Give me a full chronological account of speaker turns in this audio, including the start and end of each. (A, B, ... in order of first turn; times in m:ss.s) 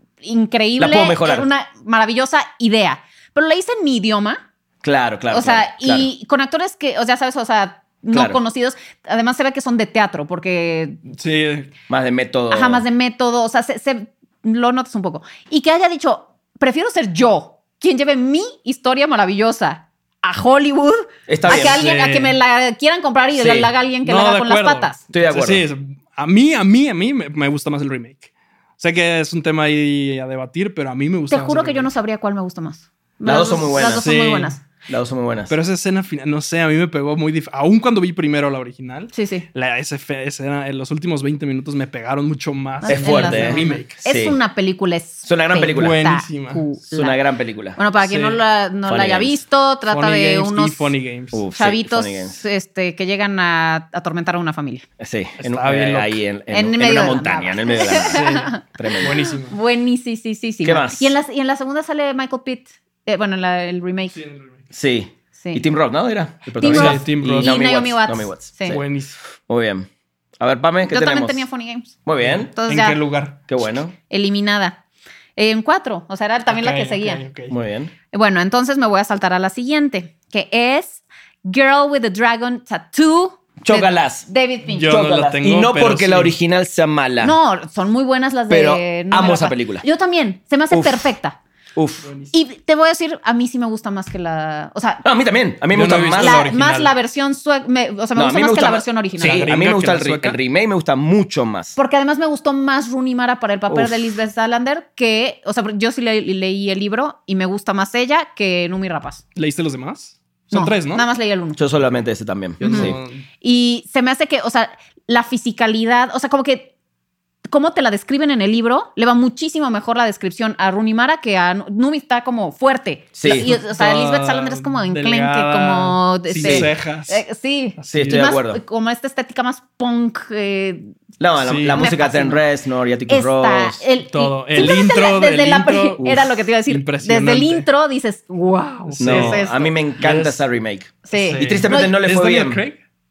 0:00.2-0:04.4 A
0:00.8-0:01.5 B
0:04.8-0:06.1 B
0:05.3-0:11.0 A
0:08.1-0:08.4 B
0:11.2-0:11.7 C
0:11.9-0:12.8 B
0:12.5-0:25.0 A
0:21.3-0:21.8 B
0:21.5-0:22.4 C
0:23.4-0:23.7 B
0:24.0-0:31.9 C
0:25.1-0:25.6 B
0:31.3-0:34.6 A
0:33.2-0:34.1 B
0:33.8-0:34.5 C
0:34.9-0:35.5 B
0:35.5-0:44.0 C
0:39.1-0:39.4 A
0:42.8-0:47.2 A
0:42.9-0:44.4 B
0:45.2-0:46.0 B
0:45.7-0:46.6 C
0:46.9-0:47.8 B
0:47.8-0:50.9 A
0:48.0-0:48.4 C
0:48.9-0:49.4 B
0:49.9-0:51.4 C
0:51.3-0:52.4 B
0:51.5-0:54.8 A
0:55.0-0:59.2 B
0:55.4-0:56.2 C
0:56.5-1:04.2 A
0:58.1-0:59.6 C
1:00.6-1:01.1 B
1:04.1-1:04.5 C
1:04.7-1:08.8 B
1:05.4-1:05.6 A
1:06.6-1:08.8 A
1:06.6-1:07.6 C
1:08.7-1:09.2 C
1:09.5-1:09.9 B
1:10.4-1:11.4 B
1:10.9-1:11.9 A
1:12.0-1:12.5 B
1:12.2-1:13.4 C
1:12.5-1:13.0 A
1:13.5-1:13.9 B
1:14.1-1:14.8 A
1:15.4-1:17.2 A
1:16.5-1:17.5 C
1:17.5-1:17.9 B
1:18.1-1:24.9 A
1:23.6-1:24.3 B
1:24.7-1:26.3 C
1:24.8-1:27.4 B
1:27.2-1:31.4 A
1:28.5-1:29.9 B
1:30.7-1:31.1 B
1:31.7-1:32.1 B
1:32.0-1:32.3 C
1:32.3-1:35.0 A
1:35.0-1:36.4 B
1:35.7-1:36.9 C
1:36.2-1:39.5 A
1:38.1-1:41.8 B
1:39.2-1:40.4 C
1:41.8-1:49.2 A
1:43.7-1:44.1 B
1:49.4-1:51.0 C
1:50.5-1:51.6 A
1:51.6-1:53.0 B
1:52.6-1:53.2 C
1:52.6-1:56.7 A
1:57.5-2:11.0 A
2:03.1-2:03.6 B
2:03.3-2:07.2 C
2:06.4-2:06.7 B
2:07.8-2:08.3 C
2:07.9-2:08.6 B
2:11.2-2:13.8 B
2:11.4-2:11.9 C
2:11.7-2:12.4 A
2:13.1-2:19.7 A
2:14.1-2:17.7 C
2:16.0-2:16.3 B
2:18.9-2:19.5 C
2:19.0-2:22.6 B
2:20.0-2:20.4 C
2:21.0-2:22.0 A
2:21.1-2:22.8 C